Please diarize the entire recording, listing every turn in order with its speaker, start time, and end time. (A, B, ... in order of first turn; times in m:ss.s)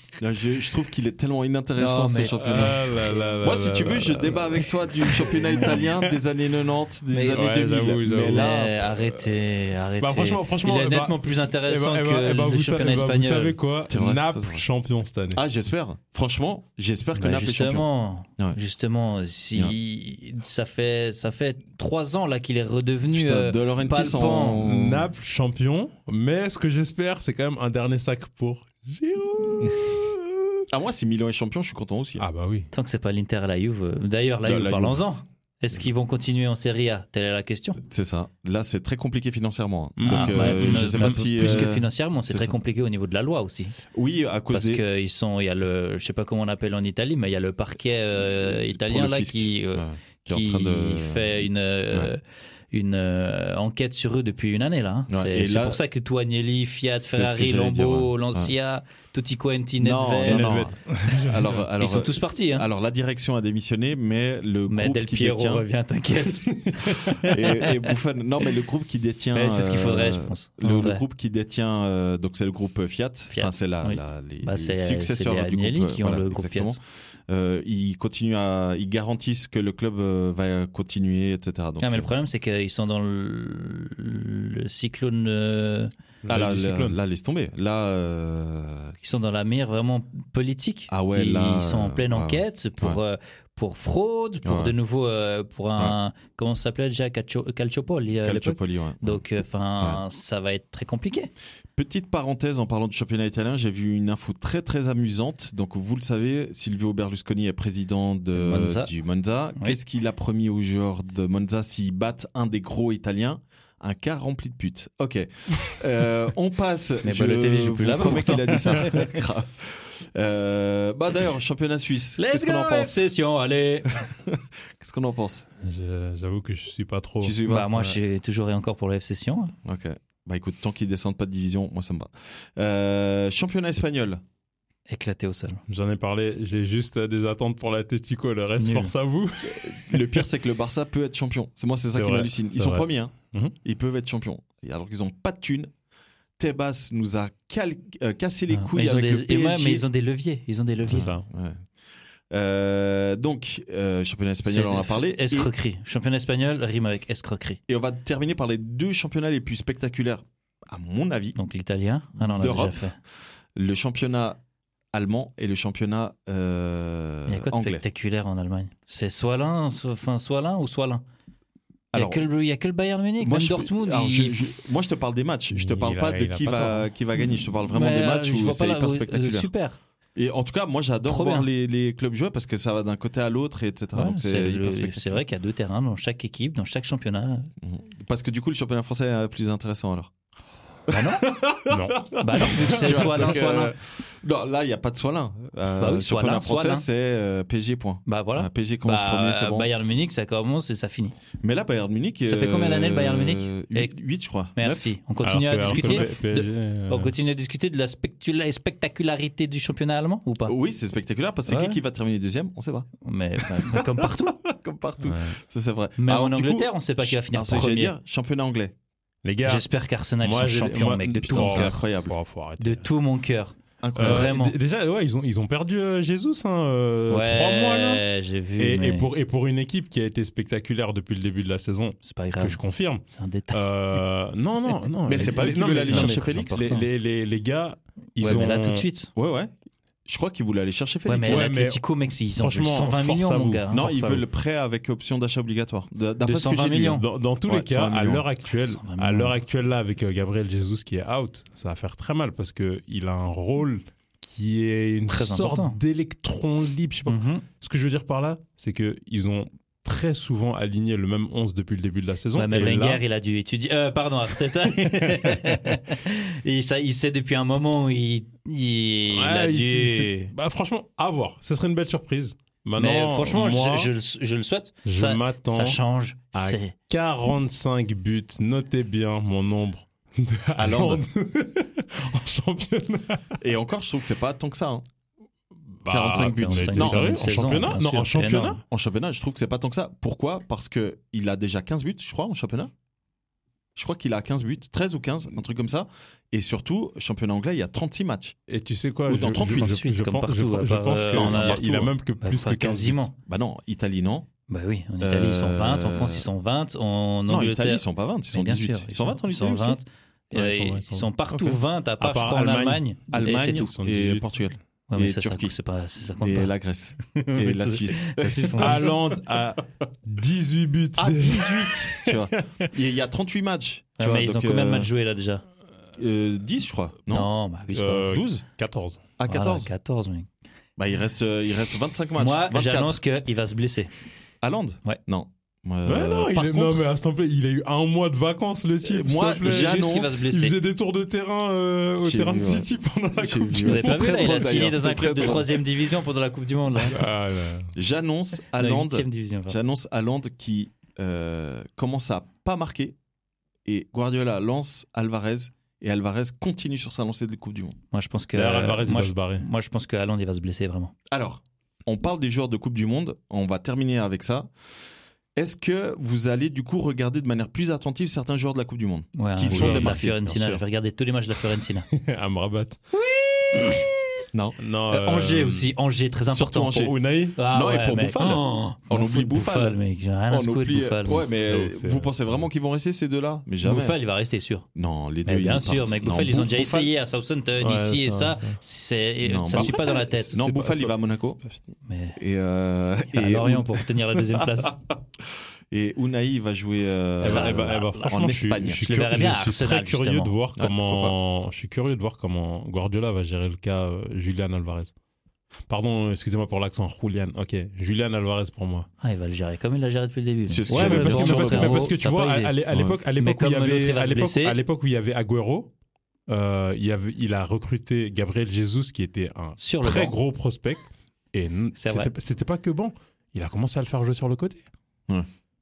0:00.2-0:08.8 A
0:01.8-0:02.7 B
0:02.4-0:06.1 C
0:07.1-0:07.5 B
0:07.3-0:08.6 C
0:08.1-0:13.6 B
0:10.0-0:15.4 C
0:13.9-0:14.6 A
0:15.3-0:17.9 A
0:17.2-0:24.6 B
0:23.1-0:25.1 A
0:24.6-0:30.4 C
0:30.7-0:32.3 A
0:32.2-0:32.7 C
0:32.7-0:37.8 B
0:34.4-0:35.0 A
0:37.8-0:42.6 A
0:40.0-0:41.7 C
0:40.0-0:43.8 B
0:43.9-0:44.8 A
0:44.5-1:00.6 B
0:48.2-0:52.1 A
0:55.1-0:55.8 A
0:56.9-0:58.5 A
0:59.8-1:05.7 A
1:00.2-1:01.6 C
1:01.8-1:02.7 B
1:04.7-1:07.9 B
1:07.2-1:22.1 A
1:09.3-1:11.0 B
1:13.3-1:16.8 B
1:21.8-1:25.9 B
1:26.2-1:27.0 C
1:26.3-1:29.0 A
1:29.0-1:41.3 B
1:30.9-1:33.0 A
1:34.4-1:34.7 A
1:38.2-1:39.2 A
1:41.8-2:03.1 A
1:48.4-1:48.9 B
1:57.0-1:59.1 B
2:02.2-2:04.0 B
2:03.9-2:05.5 A
2:05.6-2:07.4 C
2:07.2-2:08.0 A
2:07.4-2:09.6 B
2:09.6-2:14.2 A
2:14.9-2:15.6 B
2:15.7-2:20.3 C
2:18.6-2:18.9 B
2:19.4-2:25.7 A
2:21.9-2:23.6 C
2:26.4-2:29.8 A
2:28.5-2:31.1 B
2:30.9-2:31.7 A
2:30.9-2:31.2 C
2:32.3-2:35.5 A
2:34.5-2:37.6 B
2:37.7-2:41.4 A
2:41.4-2:43.0 B
2:42.2-2:42.8 A
2:43.6-2:44.4 A
2:44.9-2:47.8 A
2:47.3-2:51.0 B
2:51.9-2:52.2 A
2:52.0-2:54.5 B
2:53.2-2:59.5 A
2:55.5-2:56.9 C
2:57.7-2:59.8 B
3:00.2-3:05.2 A
3:01.1-3:01.5 B
3:04.0-3:07.5 B
3:07.6-3:10.1 A
3:10.9-3:11.2 B
3:10.9-3:19.7 A
3:11.7-3:13.4 C
3:12.2-3:13.7 B
3:15.8-3:16.8 B
3:18.1-3:21.2 B
3:21.4-3:24.9 A
3:22.3-3:23.9 B
3:24.6-3:30.6 B
3:25.2-3:27.1 C
3:25.6-3:26.1 A
3:30.4-3:38.8 A
3:31.5-3:31.8 B
3:33.0-3:34.4 B
3:35.0-3:35.4 C
3:36.0-3:37.9 B
3:39.2-3:39.7 C
3:39.4-3:41.8 B
3:40.2-3:42.9 C
3:41.2-3:42.2 A
3:42.6-3:44.6 B
3:43.8-3:44.4 A
3:44.0-3:48.0 C
3:47.1-3:49.1 B
3:48.6-3:58.9 C
3:52.0-3:52.6 B
3:53.1-3:53.6 B
3:55.1-3:56.8 A
3:55.2-3:56.9 B
3:58.2-3:59.1 B
3:58.2-3:58.5 A
3:59.2-3:59.5 A
4:00.1-4:01.5 A
4:01.1-4:04.2 B
4:01.2-4:03.6 C
4:03.7-4:08.2 A
4:06.2-4:07.0 B
4:07.0-4:23.0 C
4:08.7-4:09.4 B
4:15.1-4:15.8 B
4:17.1-4:17.4 B
4:22.4-4:30.3 B
4:24.6-4:25.7 C
4:29.1-4:33.9 C
4:32.8-4:36.7 B
4:34.9-4:35.8 C
4:36.4-4:43.4 C
4:40.6-4:41.1 A
4:43.4-4:44.8 A
4:45.8-4:48.6 C
4:45.9-4:47.0 A
4:46.1-4:48.6 B
4:48.7-4:52.7 A
4:53.8-4:58.4 A
4:58.5-5:03.0 C
4:59.1-4:59.8 A
4:59.4-5:03.2 B
5:01.1-5:01.9 A
5:03.3-5:04.3 A
5:04.5-5:13.7 B
5:05.0-5:06.3 A
5:07.3-5:09.8 A
5:10.3-5:11.1 C
5:11.3-5:11.6 A
5:12.0-5:14.2 C
5:13.1-5:15.5 A
5:14.9-5:16.5 B
5:16.2-5:19.0 A
5:17.1-5:19.0 B
5:18.6-5:22.7 C
5:21.0-5:24.9 A
5:24.0-5:25.4 B
5:25.9-5:27.3 A
5:27.1-5:28.1 B
5:27.7-5:29.1 C
5:28.0-5:28.4 A
5:29.2-5:29.7 A
5:29.3-5:30.3 B
5:30.8-5:33.0 A
5:32.2-5:33.9 B
5:34.4-5:36.8 A
5:35.8-5:45.3 C
5:38.8-5:40.3 A
5:39.4-5:40.6 B
5:42.0-5:45.6 A
5:43.6-5:47.0 B
5:46.9-5:47.7 C
5:47.8-5:53.0 A
5:48.6-5:49.6 B
5:53.7-5:57.8 A
5:57.9-6:00.9 B
5:58.3-5:59.4 C
6:01.1-6:04.5 A
6:05.4-6:10.6 A
6:09.2-6:11.9 B
6:09.5-6:10.0 C
6:11.9-6:12.8 C
6:12.9-6:13.8 B
6:14.6-6:15.7 C
6:14.9-6:21.2 B
6:16.3-6:17.0 A
6:16.8-6:17.4 C
6:17.5-6:19.8 A
6:20.3-6:24.0 A
6:21.5-6:22.3 C
6:23.6-6:24.7 B
6:24.8-6:26.9 A
6:25.2-6:30.6 B
6:27.6-6:28.6 C
6:29.2-6:31.4 A
6:29.5-6:29.9 C
6:30.4-6:31.6 C
6:31.8-6:32.2 B
6:32.2-6:39.2 A
6:33.1-6:34.8 B
6:37.2-6:44.9 C
6:37.2-6:38.2 B
6:38.8-6:40.3 B
6:40.6-6:41.2 A
6:45.7-6:48.9 C
6:49.0-6:52.6 B
6:50.5-6:51.9 A
6:50.7-6:55.7 C
6:52.7-6:53.0 A
6:53.2-6:54.6 B
6:56.3-7:04.6 C
6:59.6-7:00.2 B
7:01.8-7:02.1 B